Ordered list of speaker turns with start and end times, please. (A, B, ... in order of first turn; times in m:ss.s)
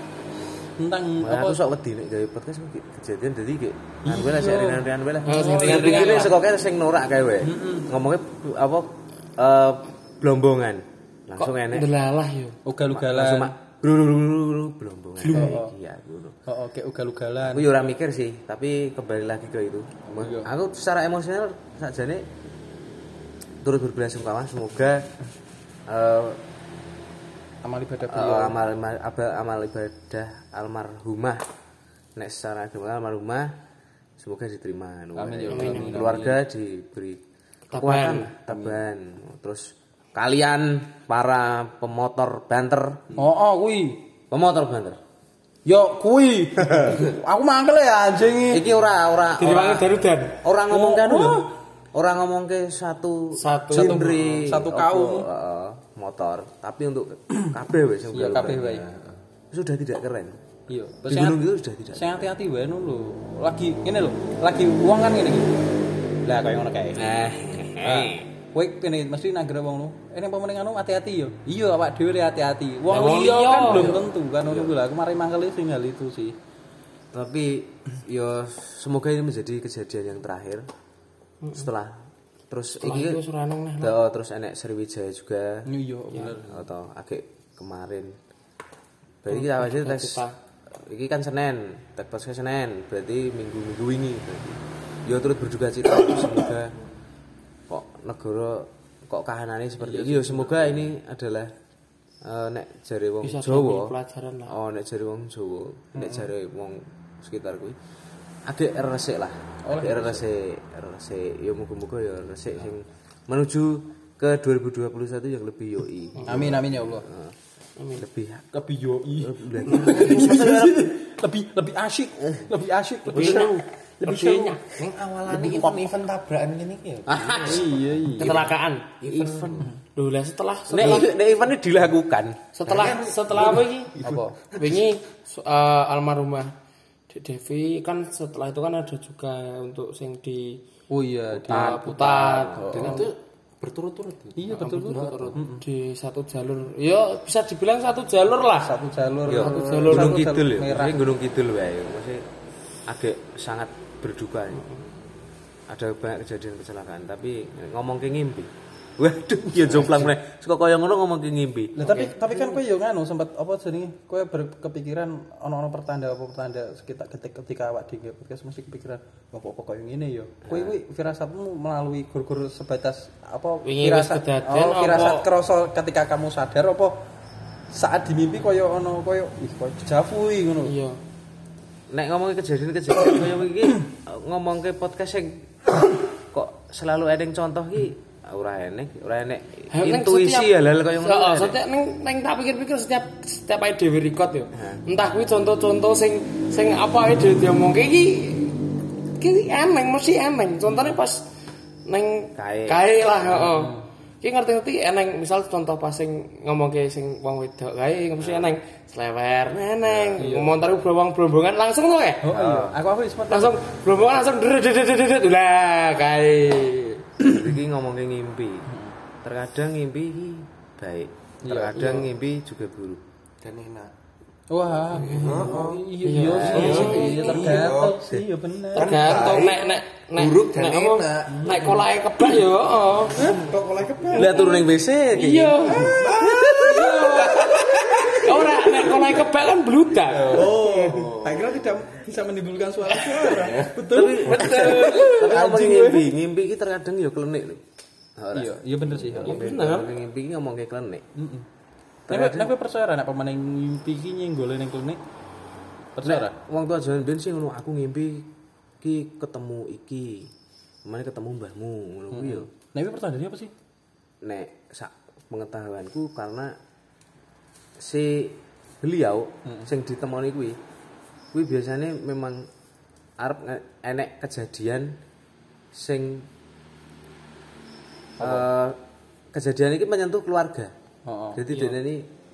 0:00.8-0:01.6 A
0:01.2-0:11.9 B
0:04.0-0:06.3 A
0:05.2-0:06.3 C
0:07.4-0:07.9 A
0:11.4-0:12.6 C
0:12.6-0:13.5 A
0:12.9-0:16.3 B
0:15.2-0:15.6 C
0:15.3-0:15.7 A
0:16.5-0:17.7 A
0:17.5-0:22.2 B
0:20.2-0:20.5 A
0:23.6-0:25.0 B
0:25.9-0:26.4 B
0:27.6-0:28.6 A
0:28.1-0:31.4 B
0:32.2-0:33.5 B
0:34.2-0:37.2 B
0:35.2-0:36.4 A
0:35.5-0:36.1 C
0:37.7-0:38.3 C
0:37.7-0:43.2 B
0:38.5-0:38.8 A
0:43.2-0:44.0 A
0:44.3-0:45.0 B
0:45.6-0:48.7 A
0:48.5-0:49.8 B
0:49.4-0:50.4 C
0:50.4-0:58.8 B
0:50.7-0:51.4 A
0:53.4-0:54.1 C
0:53.7-0:55.2 A
0:58.1-0:58.8 A
0:58.8-0:59.2 D
0:59.5-1:00.4 B
1:00.7-1:05.6 A
1:01.1-1:02.2 B
1:06.2-1:07.2 A
1:07.0-1:08.2 B
1:07.8-1:16.3 A
1:12.9-1:13.9 C
1:13.0-1:14.7 B
1:17.1-1:20.6 B
1:21.5-1:22.0 B
1:22.5-1:23.2 B
1:22.8-1:23.9 C
1:23.8-1:28.2 B
1:25.7-1:26.6 A
1:29.2-1:36.7 B
1:29.3-1:30.3 C
1:37.7-1:41.5 B
1:39.8-1:40.9 A
1:42.2-1:43.9 B
1:43.2-1:44.5 C
1:44.5-1:47.8 B
1:45.9-1:46.3 A
1:48.5-1:57.3 B
1:49.6-1:50.2 A
1:56.2-1:57.1 A
1:57.8-1:58.0 C
1:58.0-1:58.5 B
1:58.5-2:04.6 A
1:59.2-2:00.8 B
2:03.1-2:04.6 C
2:03.1-2:03.5 B
2:04.7-2:07.7 D
2:05.4-2:05.7 A
2:07.1-2:08.5 B
2:07.4-2:08.3 A
2:08.2-2:09.0 C
2:09.0-2:09.7 D
2:09.0-2:09.7 B
2:10.0-2:11.2 C
2:10.7-2:12.4 B
2:12.5-2:13.9 C
2:12.6-2:13.6 D
2:14.0-2:14.4 A
2:14.5-2:16.5 C
2:17.1-2:20.6 C
2:20.9-2:21.8 A
2:21.3-2:23.1 B
2:21.5-2:23.1 C
2:22.6-2:23.1 A
2:22.7-2:25.4 D
2:24.4-2:25.6 A
2:24.5-2:28.7 C
2:28.6-2:31.0 A
2:29.3-2:32.2 B
2:29.4-2:30.2 C
2:32.9-2:34.6 B
2:35.7-2:41.7 B
2:39.6-2:40.1 A
2:41.8-2:57.0 A
2:41.8-2:42.6 C
2:50.5-2:50.8 B
2:53.6-2:55.3 C
2:57.7-3:00.7 A
3:00.6-3:01.0 C
3:01.9-3:11.5 B
3:09.7-3:18.6 C
3:14.5-3:14.8 B
3:19.2-3:21.2 C
3:21.8-3:32.3 C
3:22.4-3:22.8 B
3:23.3-3:23.8 A
3:28.2-3:28.5 B
3:29.9-3:30.2 B
3:30.2-3:30.6 A
3:32.2-3:33.8 A
3:32.3-3:32.8 B
3:33.3-3:37.0 C
3:37.2-3:37.5 A
3:37.2-3:38.7 B
3:39.2-3:43.0 B
3:41.4-3:42.0 A
3:41.7-3:42.1 C
3:43.4-3:43.9 D
3:44.5-3:49.0 A
3:44.9-3:45.9 D
3:46.0-3:47.7 C
3:46.2-3:47.6 B
3:46.5-3:48.0 D
3:48.7-3:53.2 C
3:48.8-3:51.7 D
3:51.3-3:51.8 A
3:53.2-3:54.2 A
3:53.2-3:54.4 D
3:54.1-3:56.0 C
3:54.1-3:56.1 B
3:55.7-3:58.5 A
3:56.0-3:58.2 D
3:56.6-4:00.9 C
4:00.3-4:06.1 A
4:00.6-4:01.2 B
4:03.0-4:03.4 C
4:03.8-4:07.6 B
4:04.2-4:05.2 C
4:08.2-4:11.0 B
4:08.3-4:09.4 A
4:09.2-4:09.9 C
4:11.2-4:11.4 A
4:12.1-4:12.5 B
4:12.1-4:15.0 A
4:16.0-4:16.3 A
4:16.0-4:18.3 B
4:18.8-4:20.3 B
4:20.8-4:22.5 B
4:22.1-4:23.5 A
4:24.2-4:26.5 B
4:27.8-4:30.6 B
4:31.3-4:32.4 B
4:33.2-4:35.0 B
4:35.7-4:36.2 B
4:38.2-4:38.4 A
4:38.2-4:38.8 B
4:39.3-4:40.7 B
4:41.0-4:41.4 A
4:41.3-4:42.0 B